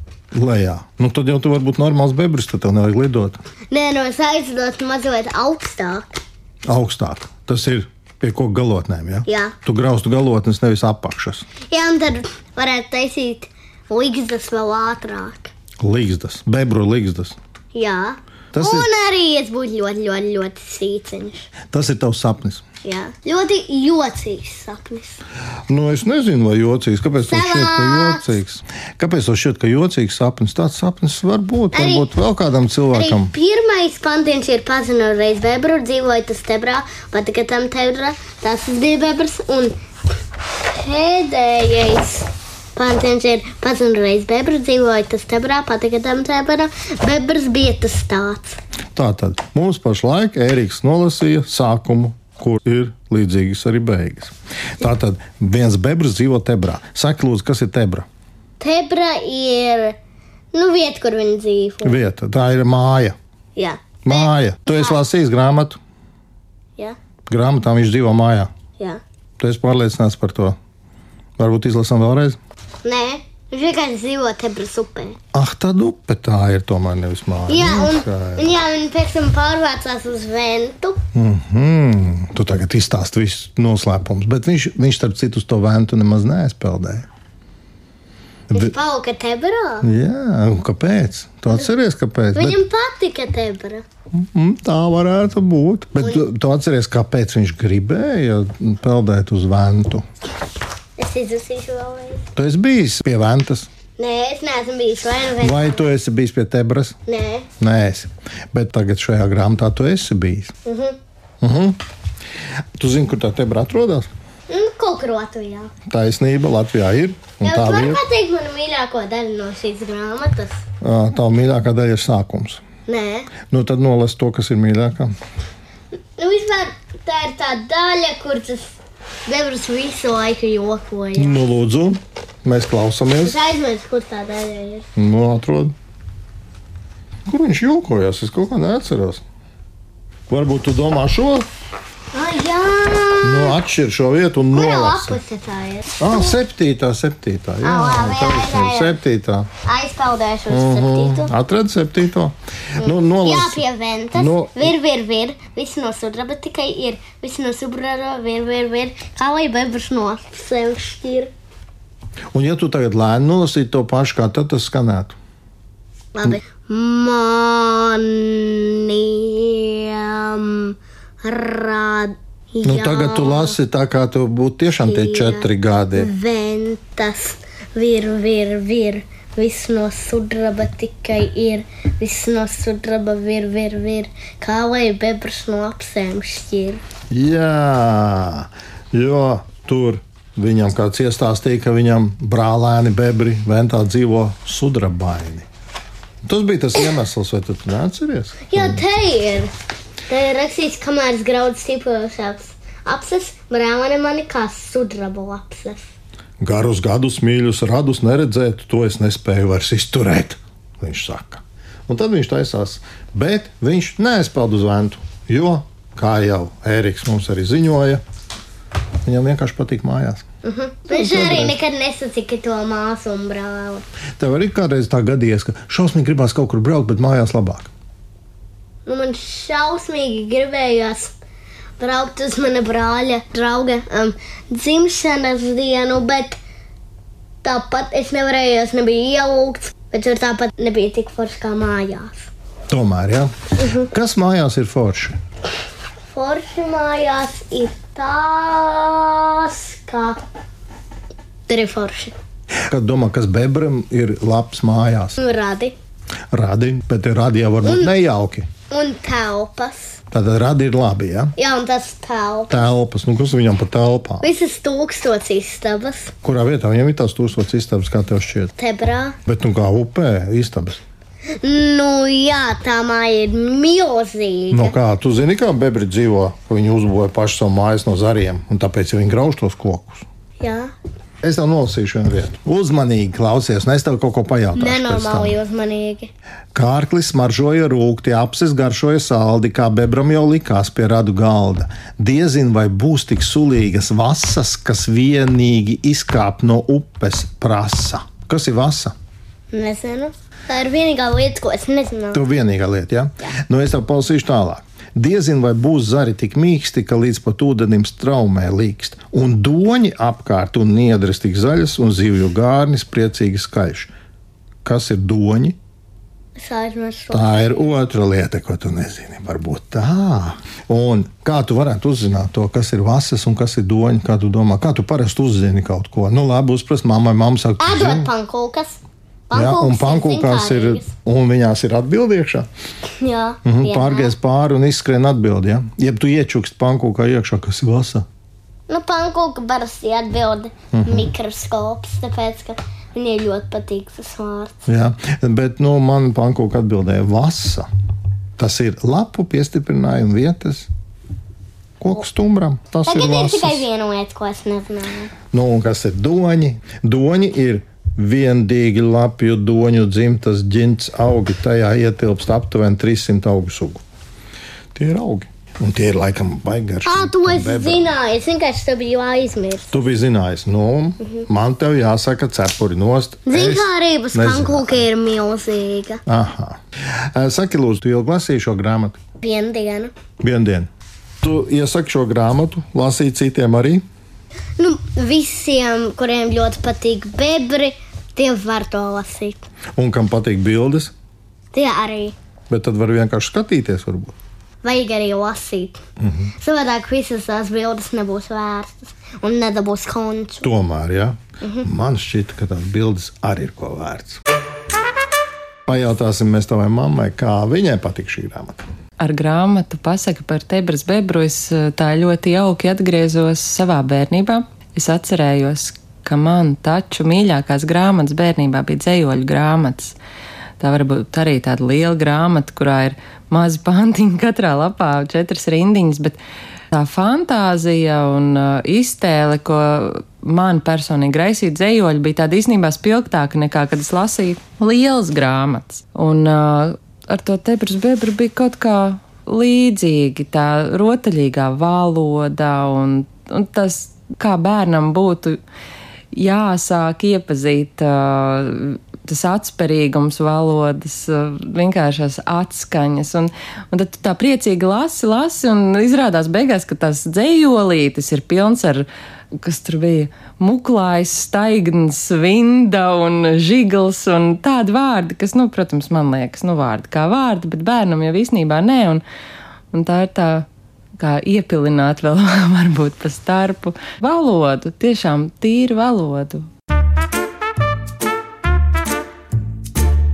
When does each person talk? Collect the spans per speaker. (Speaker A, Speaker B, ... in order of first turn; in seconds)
Speaker A: 0.3-3.4, 6.7-11.5, 15.8-17.4, 18.5-18.9, 21.7-22.6, 25.7-33.3, 49.0-58.1, 61.8-63.2, 64.0-65.8, 67.3-68.5, 69.4-70.6, 71.4-72.4, 75.3-78.5, 81.1-87.1, 89.8-92.6, 94.1-100.0, 102.3-103.7, 105.4-107.0, 107.6-110.5, 111.4-111.8, 112.8-114.1, 115.9-118.0, 120.8-122.6, 123.5-125.2, 131.2-133.4, 135.0-135.8, 137.3-139.2, 140.3-141.5, 143.2-145.2, 146.0-149.5, 150.5-153.6, 154.1-154.7, 162.3-165.2, 172.6-176.1, 187.1-195.5, 196.2-198.8, 206.4-218.0, 219.1-220.2, 220.9-221.6, 224.2-227.7, 242.7-245.2, 252.7-255.2, 256.3-258.5, 260.1-261.4, 262.5-264.3, 266.2-268.5, 269.3-270.8, 274.5-280.1, 281.2-285.4, 286.6-298.9, 302.1-313.9, 314.6-315.6, 317.1-328.1, 329.3-332.5, 333.4-338.1, 340.7-341.1, 344.7-347.7, 348.4-350.7, 351.8-353.6, 355.3-363.8, 364.7-367.9, 369.7-374.9, 376.1-379.0, 380.2-380.7, 381.2-383.8, 389.8-390.9, 392.5-394.1, 396.0-396.3, 400.4-404.2, 405.7-408.6
Speaker B: 3.7-6.1, 9.3-9.6, 11.7-15.5, 17.7-21.5, 22.8-25.2, 27.3-28.3, 31.7-32.1, 32.9-39.8, 40.7-48.6, 58.6-60.0, 60.5-62.0, 63.6-65.0, 72.8-75.2, 77.5-81.0, 88.5-89.9, 92.3-93.8, 101.0-102.3, 104.0-105.9, 107.1-107.5, 110.7-111.0, 114.5-115.7, 117.4-120.6, 122.9-123.3, 126.2-128.8, 129.3-131.4, 133.2-134.9, 142.1-143.6, 144.5-146.3, 147.6-149.0, 149.6-151.3, 152.8-161.3, 166.2-173.6, 174.8-186.8, 198.5-199.5, 200.1-205.9, 220.4-223.8, 228.9-231.1, 231.8-236.4, 237.4-242.3, 243.6-243.9, 246.1-250.2, 251.5-252.1, 255.2-255.8, 257.6-257.9, 258.7-260.0, 261.4-262.7, 264.2-266.1, 268.6-269.2, 271.4-274.8, 280.4-280.7, 284.6-286.1, 299.5-302.2, 316.4-317.7, 327.6-330.9, 333.0-334.1, 338.7-344.7, 352.9-355.1, 366.9-369.7, 373.3-376.0, 379.2-379.9, 384.6-389.5, 391.5-392.1, 394.6-395.8, 396.4-400.5, 401.4-401.7
Speaker C: 409.0-420.0, 420.6-426.2, 426.7-445.4, 446.1-458.9, 459.4-469.0, 469.7-470.5, 471.0-476.5